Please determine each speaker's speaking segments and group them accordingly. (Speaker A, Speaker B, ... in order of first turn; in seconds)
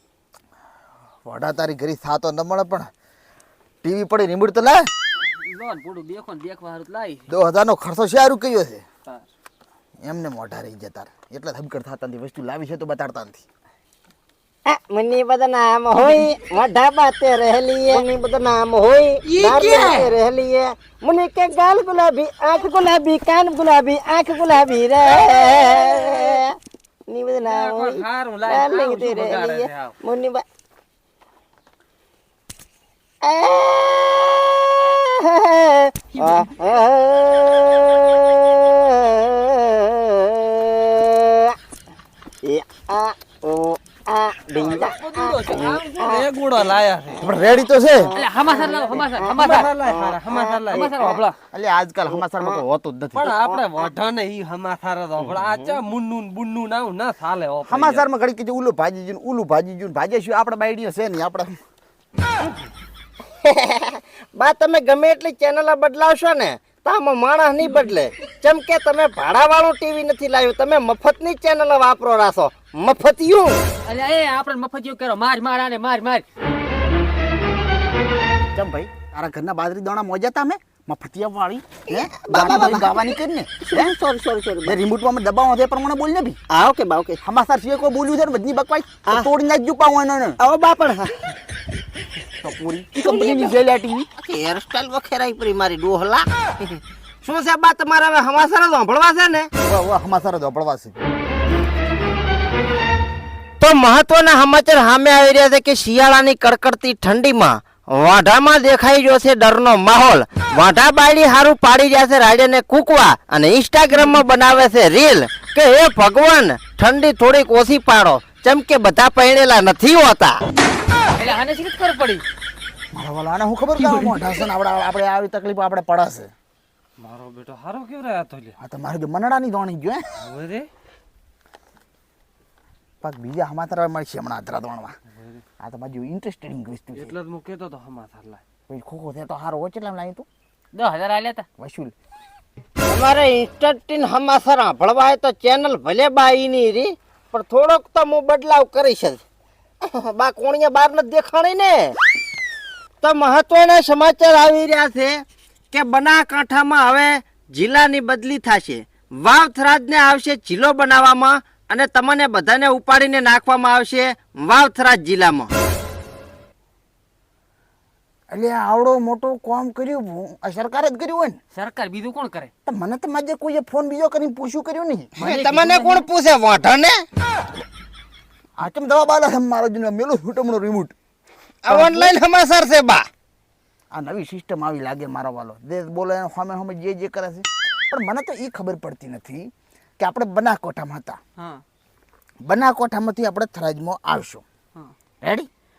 Speaker A: 1.2-2.9, 3.8-4.9, 7.3-8.8, 10.0-13.4, 47.2-48.1, 51.5-53.3, 57.7-61.5, 78.5-83.9, 84.6-86.4, 87.2-90.4, 92.4-94.1, 99.6-101.0, 122.9-126.3, 128.6-130.1, 133.0-134.9, 135.6-137.1, 138.7-140.2, 141.6-141.9, 168.3-171.4, 172.6-175.4, 178.6-180.9, 181.7-182.2, 183.9-191.2, 192.4-194.4, 195.2-195.5
Speaker B: 5.2-7.3, 19.3-20.1, 48.1-49.7, 50.7-51.4, 73.8-76.2, 121.2-122.2, 140.7-141.4, 171.5-172.5, 175.2-176.1
Speaker C: 14.7-26.5, 27.1-30.4, 33.2-41.5, 42.4-46.2, 48.0-51.2, 52.1-52.6, 53.2-53.7, 55.3-55.8, 63.4-73.6, 81.9-84.8, 86.5-87.2, 90.4-91.2, 93.0-93.5, 94.2-99.5, 103.6-120.4, 142.8-149.2, 149.8-151.9, 153.0-165.5, 175.2-177.0, 181.6-183.1
Speaker D: 25.2-26.2, 27.4-29.9, 44.5-47.3, 48.5-50.9, 53.2-58.0, 127.0-128.5, 130.2-130.7, 136.9-138.4